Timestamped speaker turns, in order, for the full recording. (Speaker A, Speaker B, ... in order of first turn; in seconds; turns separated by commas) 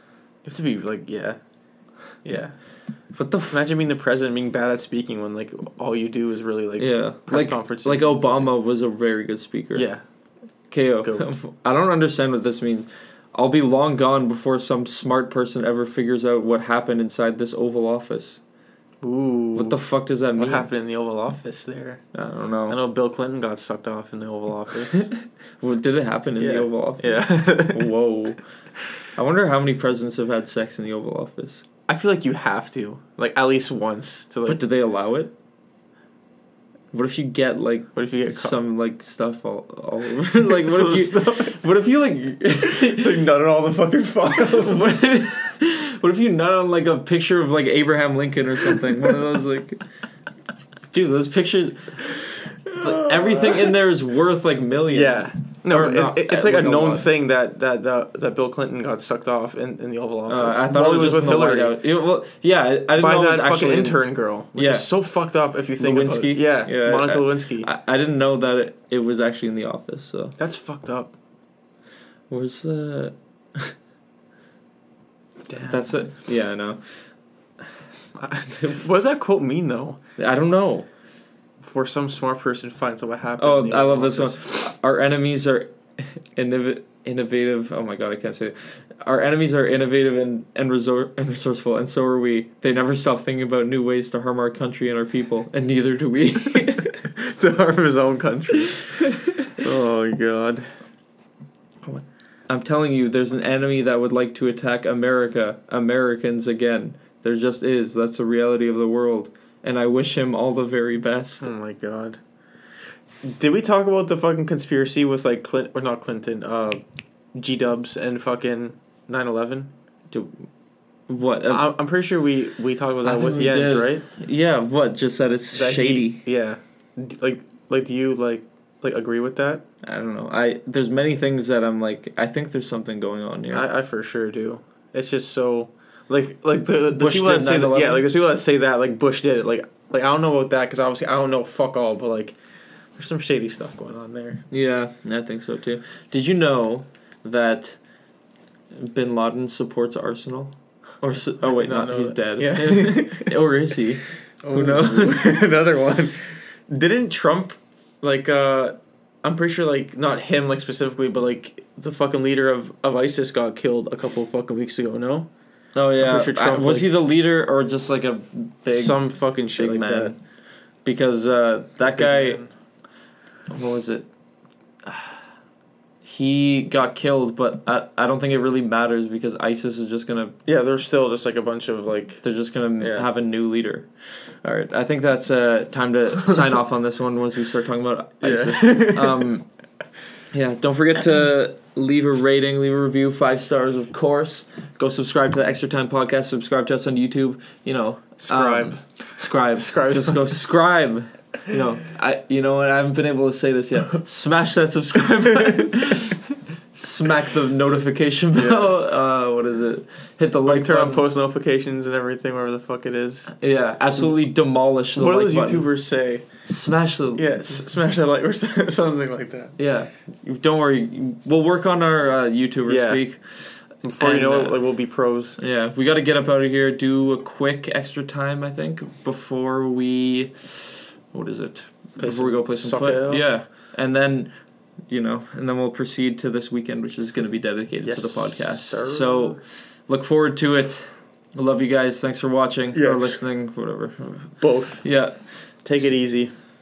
Speaker A: 0.4-1.4, Speaker A: 2.2-2.5, Speaker B: 3.1-3.6, Speaker A: 3.5-8.5, Speaker B: 6.8-9.9, Speaker A: 9.7-10.0, Speaker B: 10.7-18.4, Speaker A: 11.0-11.3, Speaker A: 19.0-19.8, Speaker B: 19.5-20.7, Speaker A: 20.4-22.0, Speaker B: 22.1-22.8, Speaker A: 22.7-25.1, Speaker B: 25.6-28.4, Speaker A: 26.4-27.9, Speaker B: 29.2-31.6, Speaker A: 31.9-34.6, Speaker B: 34.5-35.3, Speaker B: 36.9-43.2, Speaker A: 37.9-38.6, Speaker A: 40.5-41.6, Speaker A: 42.5-45.0, Speaker B: 44.3-49.8, Speaker B: 50.9-52.2, Speaker B: 52.7-57.0, Speaker A: 52.7-53.7, Speaker A: 54.9-61.8, Speaker B: 60.3-64.0, Speaker A: 63.0-67.7, Speaker B: 64.5-64.9, Speaker B: 65.8-70.3, Speaker A: 70.4-71.1, Speaker B: 72.3-73.7, Speaker A: 75.5-75.8, Speaker B: 75.6-76.8, Speaker A: 78.2-80.0, Speaker B: 80.2-80.9, Speaker A: 81.6-84.5, Speaker B: 83.4-97.0, Speaker A: 97.0-98.9, Speaker B: 98.7-99.5, Speaker A: 99.6-100.7, Speaker B: 101.8-111.5, Speaker A: 111.4-112.2, Speaker A: 113.2-116.8, Speaker A: 117.3-119.7, Speaker B: 120.1-120.4, Speaker B: 121.1-121.7, Speaker A: 121.5-124.0, Speaker B: 123.0-126.2, Speaker A: 125.5-129.6, Speaker B: 129.8-133.7, Speaker A: 133.5-142.4, Speaker B: 136.9-138.1, Speaker A: 142.9-144.4, Speaker B: 144.5-147.8, Speaker B: 148.7-155.4, Speaker A: 151.4-153.3, Speaker A: 154.4-156.1, Speaker A: 156.7-165.3, Speaker B: 165.7-169.0, Speaker A: 166.0-166.9, Speaker A: 168.7-170.1, Speaker B: 169.5-170.2, Speaker B: 170.8-172.4, Speaker A: 171.8-172.5, Speaker B: 173.5-174.1, Speaker B: 174.8-175.2, Speaker B: 176.0-180.3, Speaker A: 180.4-182.2, Speaker B: 182.2-183.9, Speaker A: 182.8-183.1, Speaker B: 184.4-189.4, Speaker A: 188.2-189.3, Speaker B: 190.3-211.0, Speaker A: 198.2-198.8, Speaker A: 199.6-200.4, Speaker A: 208.3-208.8, Speaker A: 210.4-213.3, Speaker B: 213.3-215.7, Speaker A: 214.9-216.2, Speaker B: 216.5-217.6, Speaker A: 217.2-219.6, Speaker B: 219.6-224.6, Speaker A: 222.7-223.0, Speaker A: 223.8-225.4, Speaker B: 225.4-234.3, Speaker A: 232.0-233.3, Speaker B: 234.9-245.2, Speaker A: 237.8-239.4, Speaker A: 242.7-243.2, Speaker A: 244.4-244.8, Speaker A: 245.6-246.3